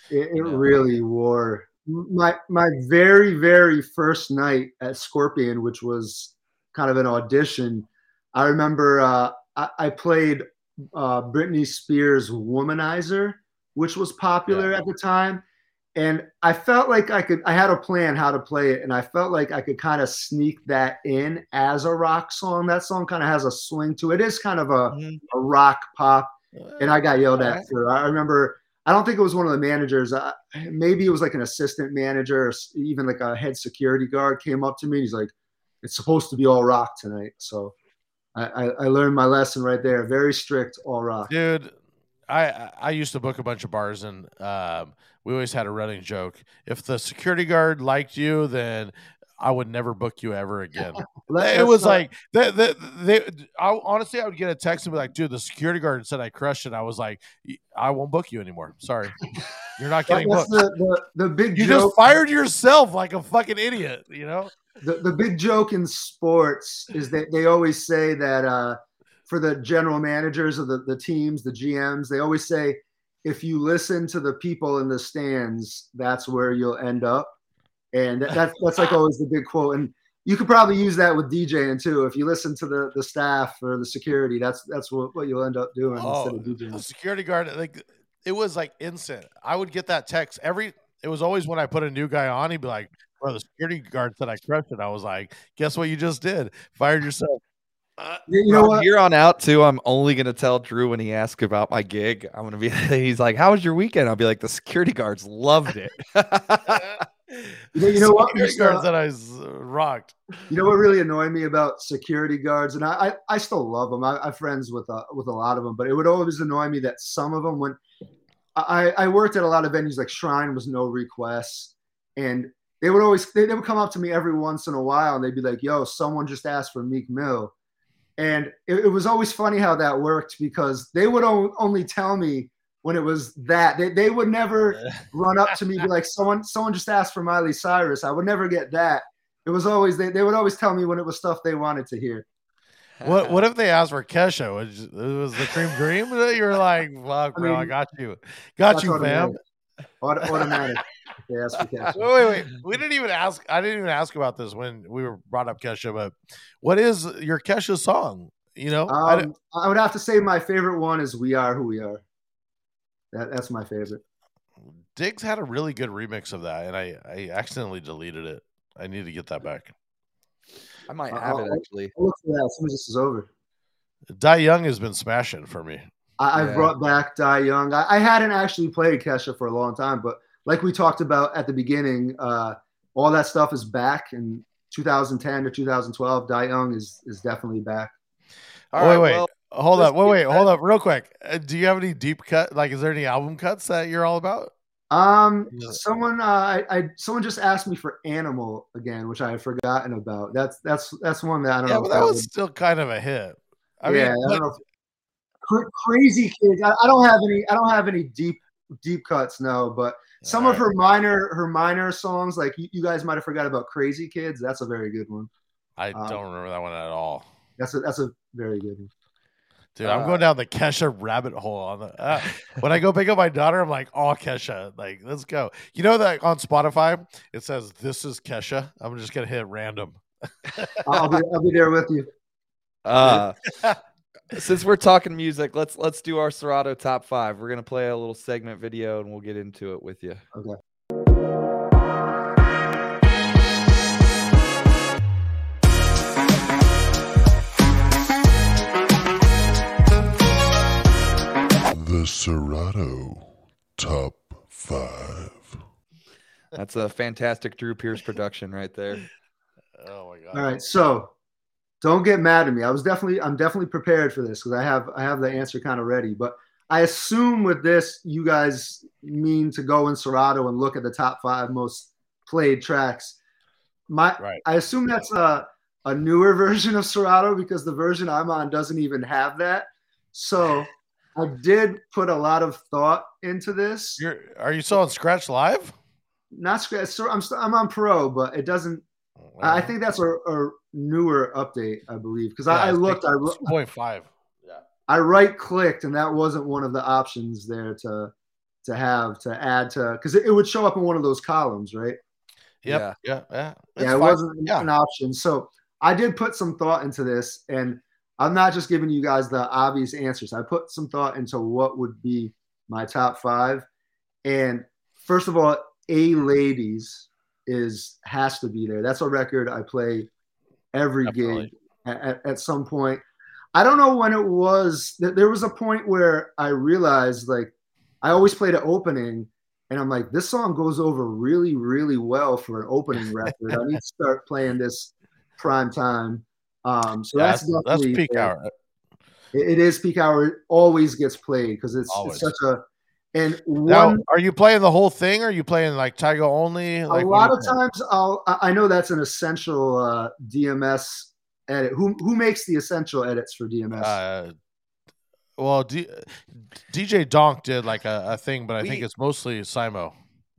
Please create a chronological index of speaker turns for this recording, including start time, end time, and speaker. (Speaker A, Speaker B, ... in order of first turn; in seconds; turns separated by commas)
Speaker A: 0.1-15.4, Speaker B: 0.4-0.6, Speaker A: 15.9-37.7, Speaker B: 24.9-25.2, Speaker C: 26.6-27.6, Speaker A: 38.3-41.3, Speaker C: 41.3-41.7, Speaker C: 42.3-60.6, Speaker A: 51.1-52.0, Speaker A: 60.1-61.9, Speaker C: 61.5-64.5, Speaker A: 64.8-77.3, Speaker A: 77.9-86.8, Speaker C: 85.9-97.4, Speaker A: 98.3-98.9, Speaker B: 98.5-107.0, Speaker C: 107.3-110.1, Speaker A: 107.7-108.8, Speaker A: 110.5-117.8, Speaker A: 118.5-127.5, Speaker A: 128.2-142.2, Speaker B: 143.0-143.3, Speaker C: 143.0-149.4, Speaker A: 147.3-147.7, Speaker A: 148.7-149.4, Speaker A: 150.0-152.0, Speaker C: 151.9-159.3, Speaker A: 158.9-162.0, Speaker A: 163.1-164.0, Speaker C: 164.9-169.7, Speaker B: 170.9-171.9, Speaker A: 171.1-173.3, Speaker C: 174.1-175.8, Speaker A: 176.2-187.9, Speaker B: 176.3-176.7, Speaker B: 188.7-190.4, Speaker C: 188.7-194.5, Speaker A: 194.9-202.3, Speaker C: 195.5-195.8, Speaker C: 201.7-204.4, Speaker A: 203.8-204.6, Speaker A: 205.4-215.3, Speaker C: 210.2-210.7, Speaker C: 215.8-217.2, Speaker A: 215.9-216.2, Speaker A: 217.6-218.9, Speaker C: 219.8-230.0, Speaker A: 219.8-220.2, Speaker C: 230.6-231.1, Speaker A: 230.8-232.1, Speaker B: 232.8-233.4, Speaker C: 233.0-233.8, Speaker B: 234.3-240.2, Speaker D: 251.7-255.6, Speaker B: 256.5-259.0, Speaker C: 259.8-260.5, Speaker A: 260.3-261.1, Speaker A: 261.8-273.2, Speaker A: 273.9-284.0, Speaker C: 284.0-285.7, Speaker A: 286.3-288.8, Speaker C: 289.4-289.7, Speaker A: 289.4-293.5, Speaker C: 292.5-294.6, Speaker A: 294.9-298.1, Speaker A: 298.6-302.0, Speaker C: 302.6-304.7, Speaker B: 302.6-302.9, Speaker A: 303.8-313.6, Speaker A: 314.2-320.1, Speaker A: 320.7-323.0, Speaker C: 321.0-321.5, Speaker A: 323.5-327.5, Speaker A: 328.0-338.3, Speaker C: 337.1-338.5, Speaker A: 339.3-344.0, Speaker C: 341.9-342.3, Speaker C: 343.7-347.6, Speaker A: 346.9-354.0, Speaker C: 353.8-354.3, Speaker C: 355.4-359.9